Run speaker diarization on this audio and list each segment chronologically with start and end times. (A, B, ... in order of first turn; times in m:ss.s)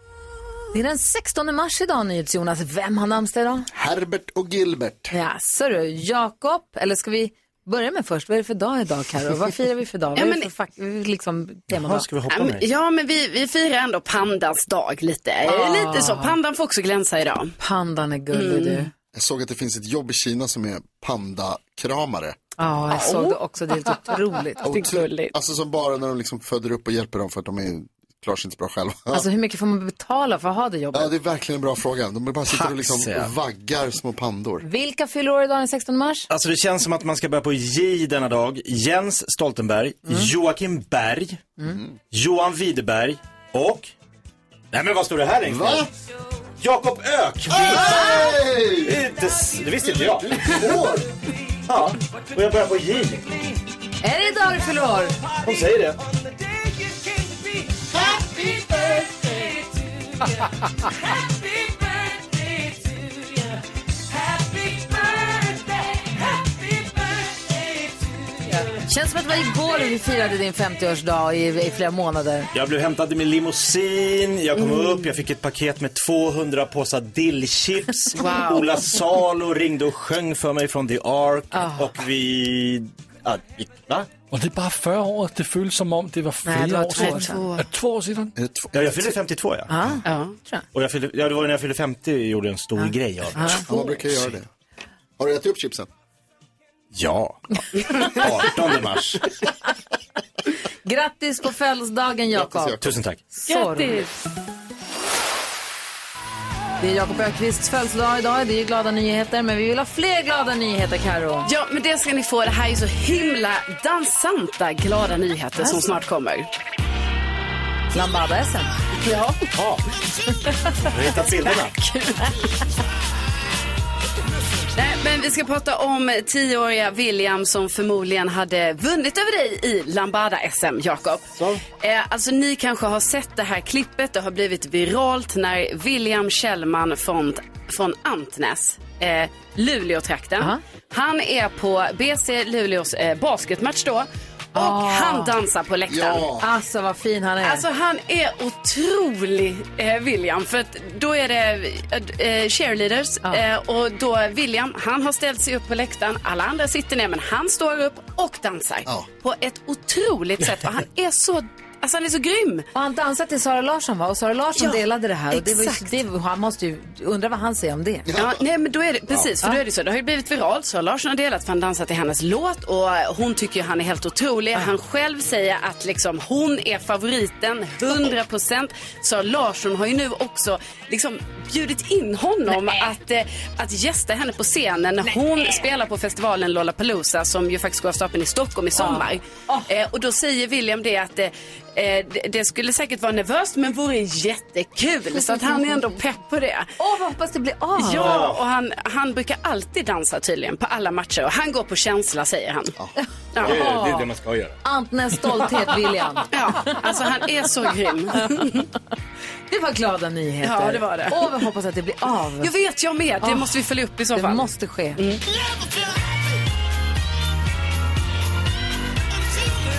0:00.7-0:03.7 A
0:03.7-0:05.1 B
0:05.1-0:12.0 A
0:10.1-0:10.5 C
0:11.7-0:12.6 D
0:12.3-0:17.6 C
0:15.4-0:16.3 A
0:17.6-0:18.9 A
0:18.3-0:18.9 C
0:19.1-0:22.4 B
0:22.6-0:25.1 A
0:22.9-0:23.3 C
0:24.6-0:25.3 C
0:24.6-0:29.2 B
0:29.1-0:31.1 A
0:30.9-0:34.6 B
0:32.5-0:33.3 D
0:34.6-0:36.3 A
0:36.3-0:41.5 D
0:41.7-0:42.0 B
0:42.1-0:43.9 D
0:44.7-0:45.9 D
0:45.5-0:45.9 B
0:46.6-0:51.0 D
0:47.5-0:48.9 B
0:49.9-0:51.1 B
0:51.7-0:53.3 D
0:54.0-0:55.1 A
0:55.4-0:56.0 D
1:08.7-1:12.5 A
1:12.5-1:24.1 D
1:18.1-1:18.7 C
1:21.5-1:21.9 A
1:24.3-1:28.3 E
1:26.4-1:27.4 A
1:27.0-1:27.7 C
1:28.4-1:28.8 B
1:28.7-1:29.7 D
1:29.7-1:30.6 A
1:30.0-1:30.4 C
1:30.7-1:34.3 D
1:32.8-1:34.0 A
1:33.4-1:34.5 B
1:35.2-1:35.9 B
1:36.9-1:39.4 D
1:40.8-1:42.8 A
1:42.3-1:43.0 B
1:42.8-1:43.2 D
1:43.3-1:44.1 A
1:43.5-1:44.1 C
1:46.8-1:51.5 A
1:51.4-1:56.5 C
1:55.6-1:55.9 A
1:57.9-1:58.7 A
1:59.0-1:59.4 C
1:59.5-1:59.8 D
2:00.8-2:01.7 D
2:01.2-2:02.3 C
2:04.7-2:26.3 C
2:11.4-2:11.6 D
2:24.5-2:25.3 A
2:25.9-2:26.5 B
2:26.4-2:27.6 A
2:27.4-2:42.7 C
2:42.7-2:48.1 A
2:45.3-2:46.0 C
2:48.1-2:48.4 B
2:48.1-3:16.7 C
3:08.8-3:09.7 A
3:15.2-3:15.6 A
3:16.8-3:18.2 A
3:17.8-3:22.8 C
3:17.9-3:18.4 D
3:23.3-3:23.6 C
3:23.4-3:24.6 D
3:23.4-3:24.1 A
3:24.6-3:26.8 A
3:26.3-3:28.7 C
3:29.5-3:32.5 A
3:30.4-3:31.4 C
3:32.4-3:34.4 C
3:33.2-3:33.6 A
3:34.1-3:35.0 A
3:35.0-3:35.2 C